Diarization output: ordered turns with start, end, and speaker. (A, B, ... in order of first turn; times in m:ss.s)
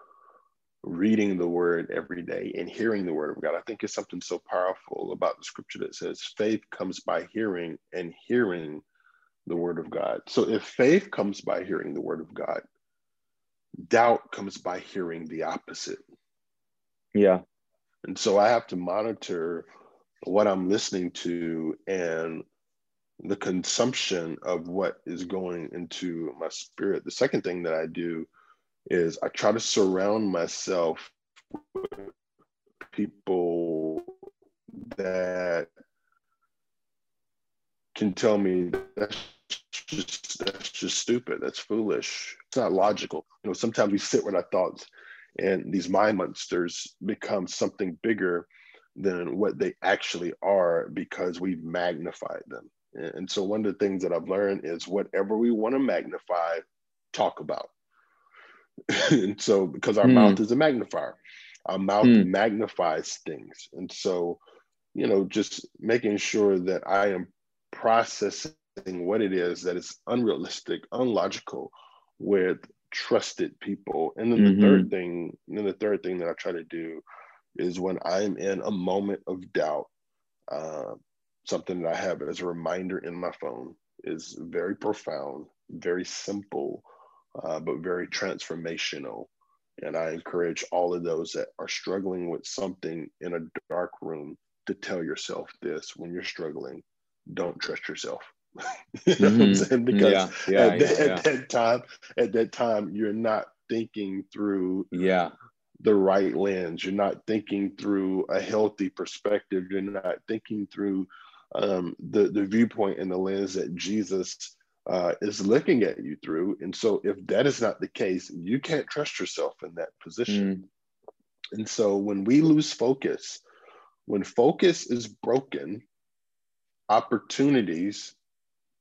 0:00.8-0:08.8 A
0:09.4-0:12.6 A
0:13.8-0:16.0 A
0:17.1-0:17.4 B
0:18.0-0:19.7 A
0:20.2-0:22.4 A
0:23.2-0:28.3 A
0:28.9-0:32.1 A
0:32.9-0:34.1 A
0:34.7-0:35.7 A
0:37.9-0:57.7 A
0:58.9-1:04.4 A
1:00.0-1:00.4 B
1:02.0-1:02.3 B
1:04.9-1:17.0 A
1:14.4-1:14.9 B
1:17.6-1:19.9 A
1:20.5-1:26.9 A
1:27.4-1:44.9 A
1:39.2-1:41.2 B
1:44.9-1:45.3 B
1:45.8-2:00.5 A
2:00.3-2:00.6 B
2:01.5-2:03.4 A
2:04.0-2:05.8 A
2:06.9-2:08.2 A